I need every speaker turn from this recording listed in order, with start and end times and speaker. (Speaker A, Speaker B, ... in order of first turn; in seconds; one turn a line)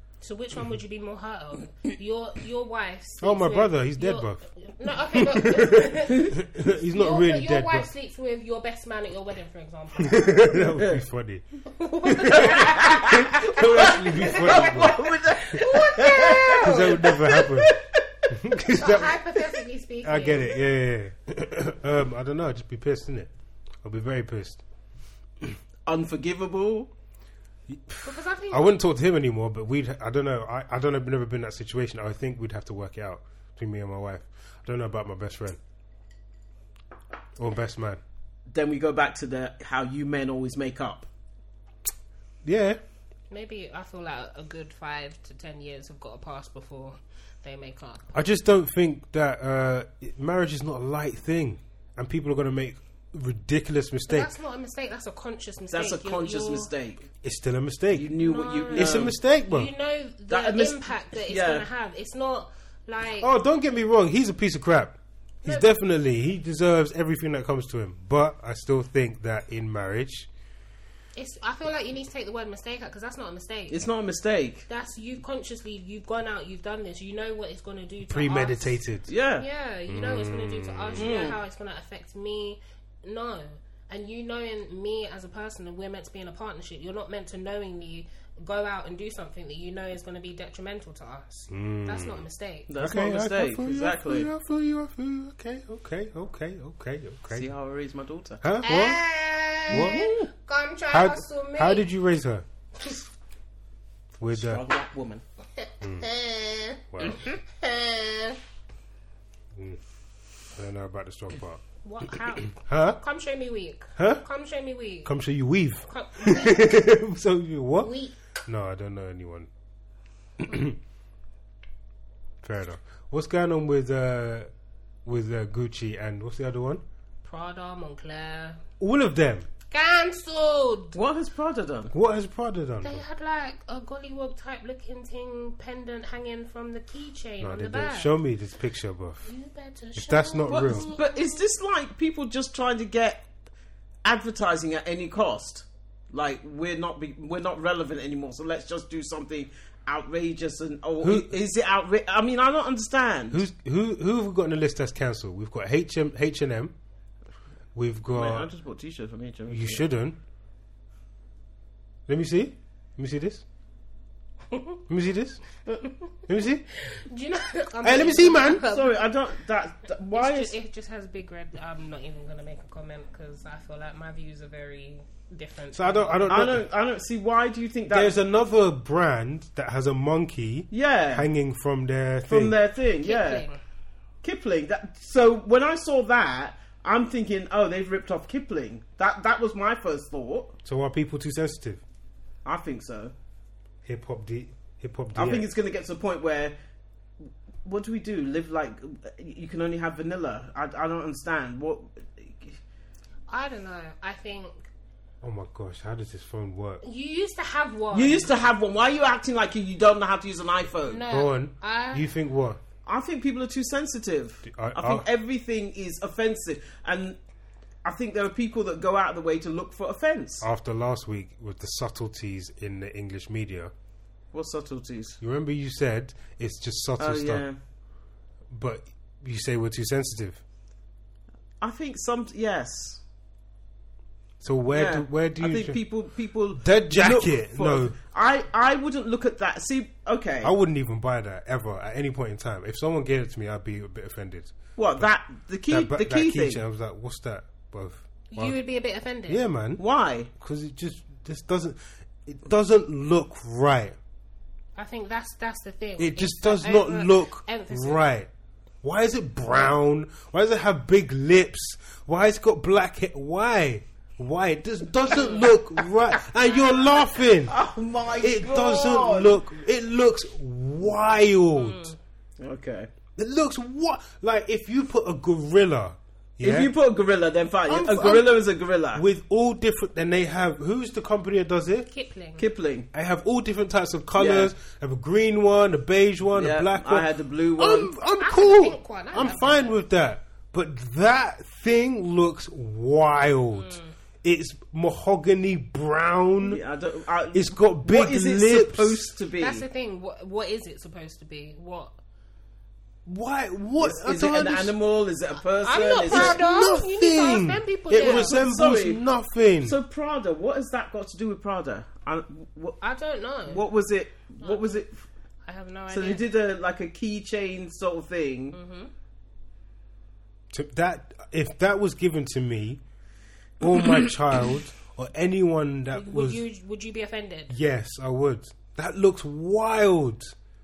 Speaker A: 0.2-10.6
Speaker B: 3.2-4.5
Speaker B: 5.1-7.9
Speaker B: 10.0-15.0
Speaker A: 11.7-13.1
Speaker C: 12.4-18.2
Speaker A: 13.8-17.2
Speaker B: 16.6-17.7
Speaker B: 18.3-19.2
Speaker A: 18.7-20.6
Speaker B: 20.0-23.3
Speaker B: 23.8-24.6
Speaker C: 25.9-26.9
Speaker B: 27.7-35.6
Speaker A: 28.0-28.7
Speaker B: 37.4-38.0
Speaker C: 38.5-41.1
Speaker B: 42.4-42.8
Speaker A: 43.3-48.1
Speaker B: 48.1-54.3
Speaker A: 54.1-56.7
Speaker C: 55.7-57.1
Speaker B: 57.2-58.1
Speaker C: 57.9-59.1
Speaker A: 58.2-63.3
Speaker B: 58.7-59.7
Speaker C: 60.3-61.6
Speaker B: 63.2-70.3
Speaker A: 65.4-65.7
Speaker A: 71.2-73.8
Speaker C: 73.7-74.7
Speaker A: 74.7-78.8
Speaker B: 78.1-79.1
Speaker C: 79.1-79.5
Speaker A: 79.4-92.7
Speaker B: 79.9-81.2
Speaker C: 81.0-81.4
Speaker B: 91.5-92.2
Speaker C: 92.7-94.3
Speaker B: 92.8-97.5
Speaker C: 97.3-98.4
Speaker B: 98.4-99.0
Speaker A: 98.6-101.8
Speaker B: 99.7-100.1
Speaker C: 99.7-100.3
Speaker B: 100.9-102.4
Speaker B: 104.2-104.6
Speaker C: 104.3-105.2
Speaker A: 105.6-108.4
Speaker B: 105.8-106.0
Speaker B: 106.9-107.2
Speaker B: 109.5-109.8
Speaker B: 110.5-111.6
Speaker A: 111.8-115.1
Speaker B: 112.5-113.0
Speaker B: 114.0-114.2
Speaker B: 115.0-117.9
Speaker A: 115.9-116.8
Speaker A: 117.8-118.2
Speaker B: 118.4-119.5
Speaker B: 120.4-120.8
Speaker B: 122.4-124.5
Speaker B: 125.0-126.8
Speaker A: 127.2-128.6
Speaker B: 128.8-129.5
Speaker A: 129.7-131.0
Speaker C: 130.9-131.9
Speaker B: 131.9-133.0
Speaker A: 132.8-138.1
Speaker B: 137.4-139.3
Speaker A: 139.2-141.4
Speaker B: 139.9-140.8
Speaker C: 140.5-143.2
Speaker C: 144.0-153.4
Speaker B: 151.0-151.3
Speaker B: 153.3-156.7
Speaker B: 157.7-158.5
Speaker C: 158.1-159.8
Speaker B: 159.5-160.2
Speaker B: 162.1-163.4
Speaker A: 164.5-164.8
Speaker B: 164.9-165.4
Speaker B: 166.3-166.6
Speaker A: 166.8-169.0
Speaker B: 167.8-168.6
Speaker C: 168.7-170.5
Speaker A: 170.1-176.3
Speaker B: 175.7-176.7
Speaker C: 176.3-178.1
Speaker B: 177.9-182.6
Speaker C: 180.7-181.2
Speaker C: 182.2-183.4
Speaker A: 183.0-183.6
Speaker C: 184.2-190.6
Speaker B: 190.6-191.8
Speaker C: 192.4-193.1
Speaker B: 193.8-195.5
Speaker C: 195.1-196.6
Speaker C: 197.2-202.6
Speaker A: 203.3-204.7
Speaker B: 205.2-206.8
Speaker A: 206.8-208.3
Speaker C: 207.9-211.0
Speaker A: 210.8-212.1
Speaker B: 211.1-212.6
Speaker C: 212.8-217.2
Speaker B: 214.4-215.1
Speaker C: 217.8-220.4
Speaker B: 220.4-223.7
Speaker C: 224.3-225.2
Speaker B: 225.2-227.4
Speaker C: 227.0-227.6
Speaker B: 228.5-230.4
Speaker C: 231.6-233.0
Speaker B: 234.4-235.8
Speaker C: 234.7-240.5
Speaker B: 236.6-237.9
Speaker B: 240.4-245.1
Speaker C: 244.8-246.6
Speaker B: 245.7-248.6
Speaker A: 248.3-249.4
Speaker B: 249.3-249.8
Speaker C: 249.8-250.3
Speaker B: 250.4-253.9
Speaker A: 254.8-258.0
Speaker B: 256.0-258.3
Speaker B: 258.8-267.6
Speaker A: 265.1-265.5
Speaker A: 266.5-266.9
Speaker C: 267.4-269.4
Speaker B: 268.2-271.9
Speaker A: 271.5-272.0
Speaker C: 272.4-272.9
Speaker B: 273.2-276.7
Speaker C: 276.4-279.0
Speaker B: 277.7-278.4
Speaker B: 278.9-281.9
Speaker A: 281.9-282.4
Speaker C: 282.4-282.9
Speaker B: 282.9-296.6
Speaker C: 284.2-284.5
Speaker C: 286.3-287.9
Speaker A: 288.2-289.7
Speaker A: 293.5-293.9
Speaker C: 296.4-299.6
Speaker B: 297.3-299.1
Speaker A: 299.4-301.9
Speaker B: 303.1-304.7
Speaker C: 303.8-306.4
Speaker A: 305.6-308.3
Speaker B: 306.1-309.8
Speaker C: 307.9-309.0
Speaker C: 309.6-312.8
Speaker A: 312.8-313.6
Speaker C: 313.4-315.0
Speaker A: 314.4-314.8
Speaker A: 315.4-316.2
Speaker C: 315.9-318.6
Speaker A: 318.5-318.9
Speaker B: 320.5-322.8
Speaker B: 323.6-326.4
Speaker A: 325.9-327.5
Speaker B: 327.5-330.3